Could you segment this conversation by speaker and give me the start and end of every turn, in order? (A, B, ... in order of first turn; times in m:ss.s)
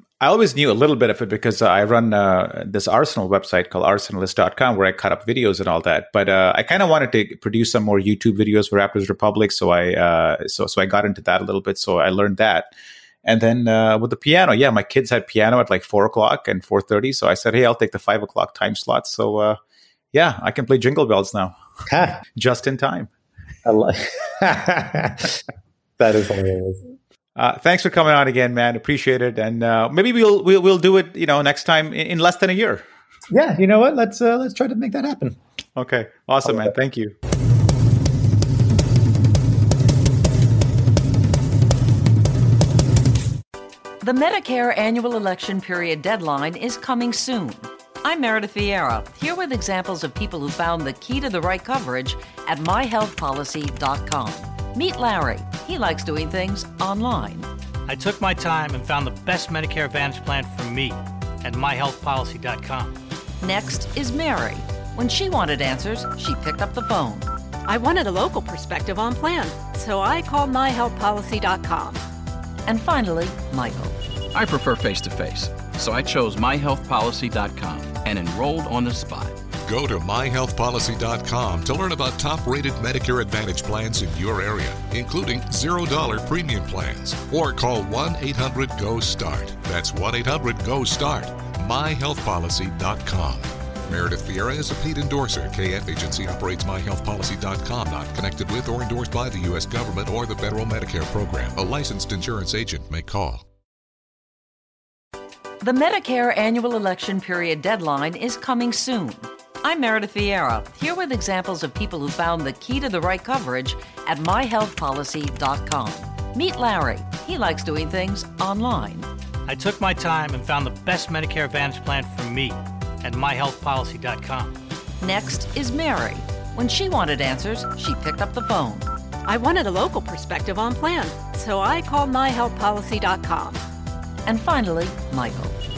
0:00.2-0:12.7 A
0:13.2-0:19.6 A
0:20.1-0:21.5 A
0:21.9-0:22.2 B
0:22.3-0:23.1 A
0:23.6-0:25.4 B
0:26.0-0:26.8 B
0:27.4-0:32.8 A
0:33.3-0:35.4 B
0:35.8-0:37.2 A
0:44.0-0:57.5 C
0:57.9-1:03.0 D
1:03.4-1:07.3 C
1:07.7-1:12.0 E
1:12.6-1:14.0 C
1:14.3-1:19.3 F
1:19.6-1:43.4 G
1:45.6-1:59.1 C
1:59.5-2:04.6 D
2:05.0-2:08.9 C
2:09.2-2:13.6 E
2:14.2-2:15.6 C